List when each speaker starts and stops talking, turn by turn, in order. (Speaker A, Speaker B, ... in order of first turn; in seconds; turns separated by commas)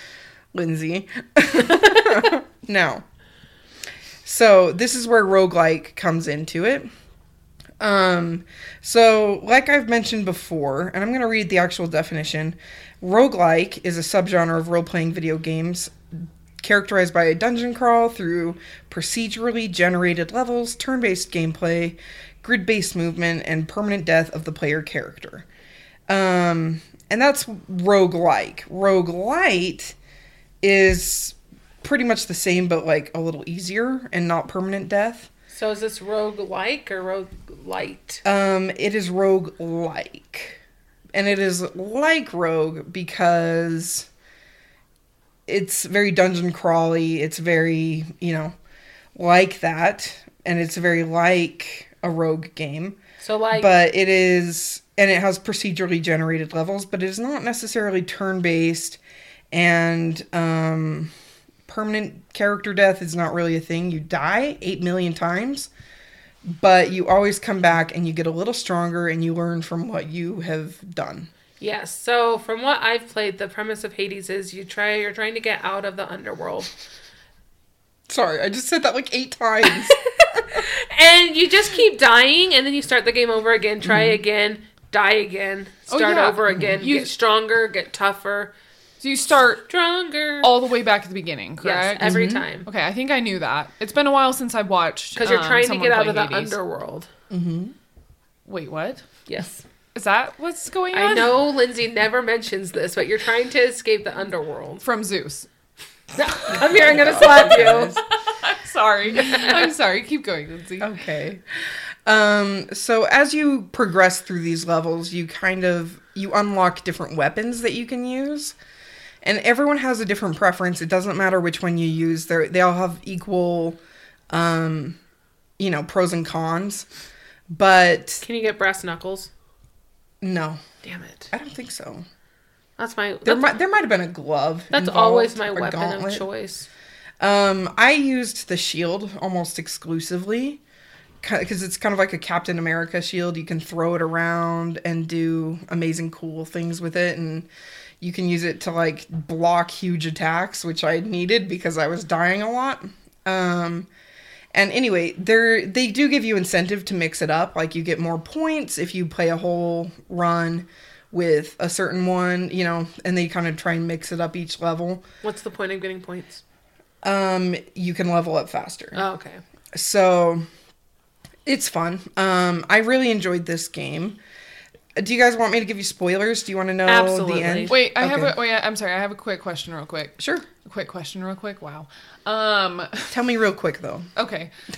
Speaker A: 0.5-3.0, Speaker A: 4.2-6.9, Speaker A: 7.8-25.5, Speaker A: 26.1-29.9, Speaker A: 30.6-35.3, Speaker B: 35.5-38.2, Speaker A: 38.2-40.6, Speaker A: 41.1-44.1, Speaker A: 45.5-48.5, Speaker A: 49.2-53.0, Speaker B: 53.2-53.7, Speaker A: 53.5-59.0, Speaker A: 59.5-61.1, Speaker A: 61.7-65.7, Speaker A: 66.5-71.3, Speaker B: 71.6-76.7, Speaker A: 78.1-80.6, Speaker B: 79.9-88.5, Speaker A: 83.8-84.2, Speaker C: 85.9-87.1, Speaker C: 89.0-89.7, Speaker B: 89.7-90.5, Speaker C: 90.4-96.6, Speaker B: 91.6-92.7, Speaker A: 92.0-92.5, Speaker B: 95.2-97.1, Speaker A: 97.3-97.7, Speaker C: 98.5-99.0, Speaker B: 99.3-99.6, Speaker C: 100.0-101.3, Speaker B: 100.9-104.8, Speaker C: 104.8-105.5, Speaker B: 106.2-108.0, Speaker A: 106.5-108.0, Speaker C: 108.3-110.9, Speaker B: 109.2-109.6, Speaker A: 110.8-118.5, Speaker A: 119.2-123.8, Speaker A: 124.3-125.0, Speaker A: 125.6-126.9, Speaker A: 127.5-128.2, Speaker B: 128.2-129.3, Speaker A: 130.2-130.6, Speaker B: 130.8-131.3, Speaker A: 131.3-132.1, Speaker B: 132.8-133.5, Speaker A: 133.2-136.3, Speaker B: 134.7-136.7, Speaker A: 137.2-140.6, Speaker A: 141.2-147.5, Speaker A: 148.0-153.9, Speaker A: 154.5-165.0, Speaker B: 165.2-166.4, Speaker A: 167.0-169.0, Speaker B: 168.9-169.4, Speaker A: 169.7-170.4, Speaker A: 171.5-174.2, Speaker A: 175.0-178.3, Speaker B: 176.9-177.8, Speaker C: 177.7-183.1, Speaker A: 180.2-180.5, Speaker A: 183.1-184.1, Speaker C: 184.2-184.5